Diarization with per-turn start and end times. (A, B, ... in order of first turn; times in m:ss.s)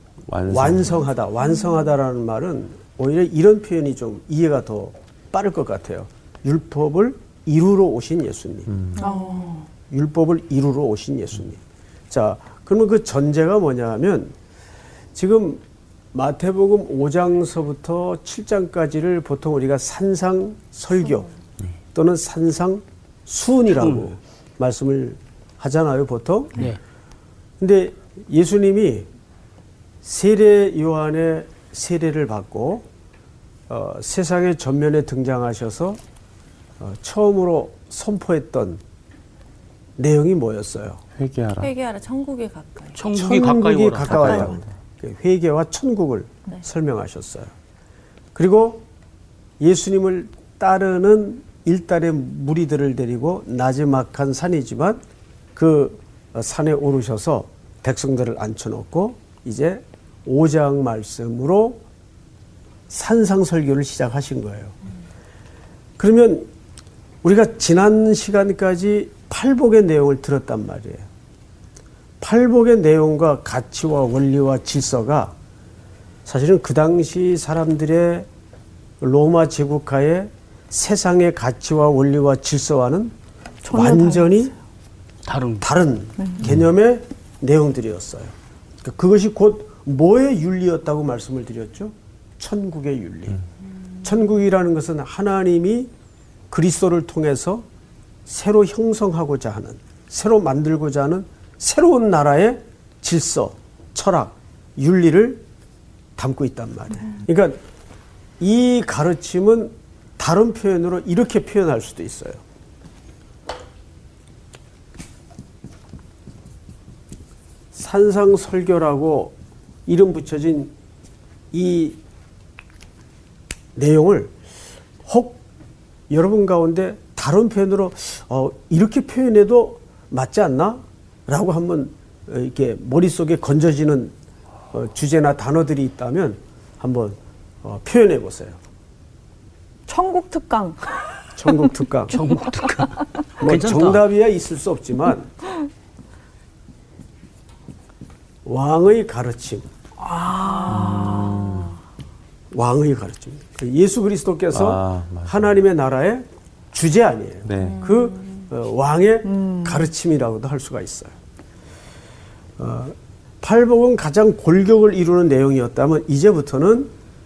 0:00.3-0:01.1 A
0:00.5-0:08.7 B
0:08.7-0:09.1 A
0:09.0-0:09.7 C
0:09.0-0:09.7 D
0:09.9-0:11.6 B
0:12.1-0:14.4 B
0:15.2-0:15.6 B
0:16.1-0:21.3 B
0:21.9-0:26.6 B
0:23.7-0:24.1 E
0:27.6-0:29.1 B
0:30.0-0:32.8 B
0:33.7-0:36.0 B
0:36.8-0:38.8 B
0:40.0-0:41.0 B
0:41.2-0:41.7 A
0:41.6-0:43.0 C
0:43.0-0:44.6 E
0:43.1-0:47.5 B
0:44.1-0:44.6 C
0:48.4-0:48.8 B
0:49.6-0:55.0 B
0:55.6-1:01.8 B
1:02.9-1:04.8 B
1:06.0-1:06.5 B
1:07.2-1:11.1 B
1:12.2-1:15.3 B
1:16.3-1:18.3 B
1:19.0-1:23.1 B
1:23.6-1:24.5 D
1:23.7-1:24.5 B
1:25.2-1:25.7 E
1:25.6-1:33.4 B
1:26.2-1:26.4 D
1:34.0-1:35.9 B
1:36.5-1:37.6 B
1:38.3-1:45.4 B
1:46.2-1:47.6 B
1:48.4-1:52.4 B
1:57.7-1:59.4 B
1:59.9-2:00.7 B
2:01.5-2:02.0 B
2:03.8-2:04.3 B
2:05.1-2:05.4 B
2:06.1-2:14.1 B
2:14.7-2:18.6 B
2:19.9-2:21.0 D
2:21.4-2:22.2 B
2:22.1-2:24.0 E
2:23.4-2:25.3 B
2:28.4-2:29.7 B
2:30.0-2:31.5 D
2:30.6-2:31.5 C
2:30.6-2:31.7 A
2:32.5-2:41.2 B
2:34.5-2:35.6 A
2:37.4-2:37.9 A
2:37.6-2:38.3 C
2:39.3-2:39.9 D
2:42.6-2:46.9 B